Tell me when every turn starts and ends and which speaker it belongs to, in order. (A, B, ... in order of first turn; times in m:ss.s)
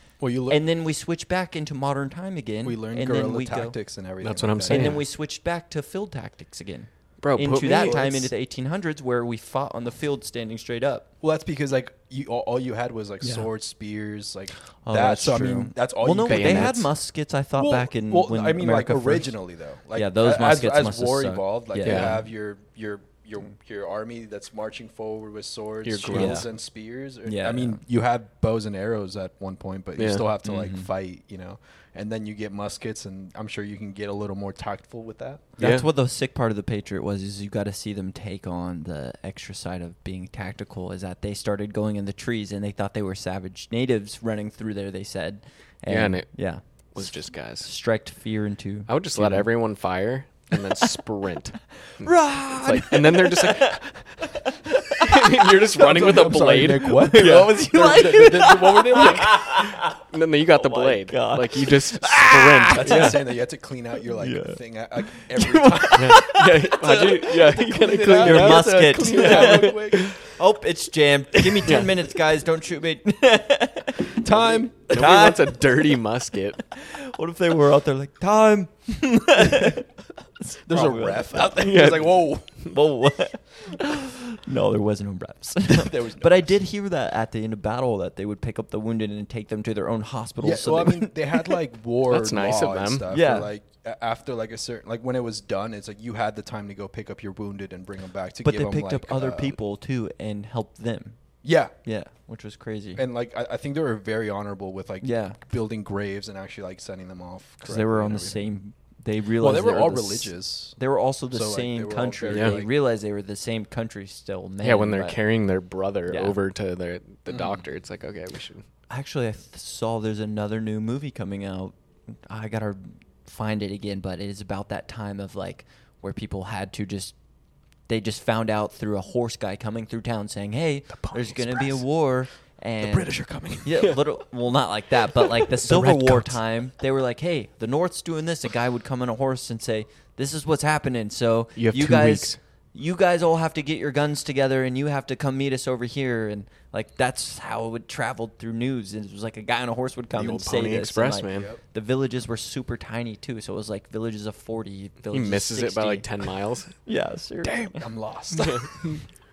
0:00.2-0:00.6 A
0:00.5-0:03.8 B
0:02.6-0:05.0 A
0:04.2-0:05.0 C
0:04.7-0:11.1 B
0:07.2-0:08.1 C
0:07.6-0:08.3 A
0:11.2-0:16.8 A
0:13.2-0:13.5 B
0:14.8-0:19.4 B
0:16.2-0:16.9 C
0:17.6-0:35.5 A
0:19.9-0:22.2 B
0:21.8-0:22.2 C
0:25.8-0:26.4 C
0:26.0-0:26.5 B
0:27.2-0:27.8 B
0:30.0-0:30.2 C
0:30.4-0:30.9 B
0:35.6-0:49.5 B
0:35.6-0:35.9 C
0:45.9-0:47.7 C
0:48.9-0:54.2 C
0:52.0-0:55.5 B
0:55.0-0:57.6 C
0:55.8-0:59.4 A
0:56.8-1:00.0 B
0:58.9-1:03.2 C
1:00.5-1:03.2 B
1:02.7-1:10.3 A
1:04.1-1:07.1 B
1:05.9-1:10.2 C
1:08.2-1:14.2 B
1:11.4-1:11.8 A
1:11.6-1:11.9 C
1:14.2-1:15.2 A
1:14.9-1:16.6 C
1:14.9-1:15.9 B
1:16.7-1:19.9 B
1:20.4-1:21.9 B
1:20.7-1:22.6 A
1:21.6-1:22.7 C
1:22.7-1:31.6 B
1:25.7-1:26.5 A
1:30.4-1:39.6 A
1:32.1-1:33.1 C
1:33.1-1:33.5 B
1:38.4-1:41.2 B
1:41.4-1:41.7 A
1:41.8-1:43.0 B
1:43.0-1:48.4 A
1:45.0-1:45.4 B
1:47.6-1:55.2 B
1:49.4-1:50.8 A
1:51.3-1:52.7 A
1:52.3-1:52.6 C
1:54.6-1:58.6 C
1:56.1-1:56.4 B
1:57.3-1:57.6 A
1:58.9-2:07.2 B
2:07.9-2:36.3 B
2:11.1-2:11.8 C
2:12.8-2:13.9 A
2:15.6-2:16.4 C
2:21.6-2:22.4 C
2:30.1-2:31.5 C
2:31.3-2:31.6 A
2:35.1-2:36.8 C
2:36.8-2:37.8 B
2:37.4-2:37.8 C
2:37.8-2:38.7 A
2:38.3-2:39.0 C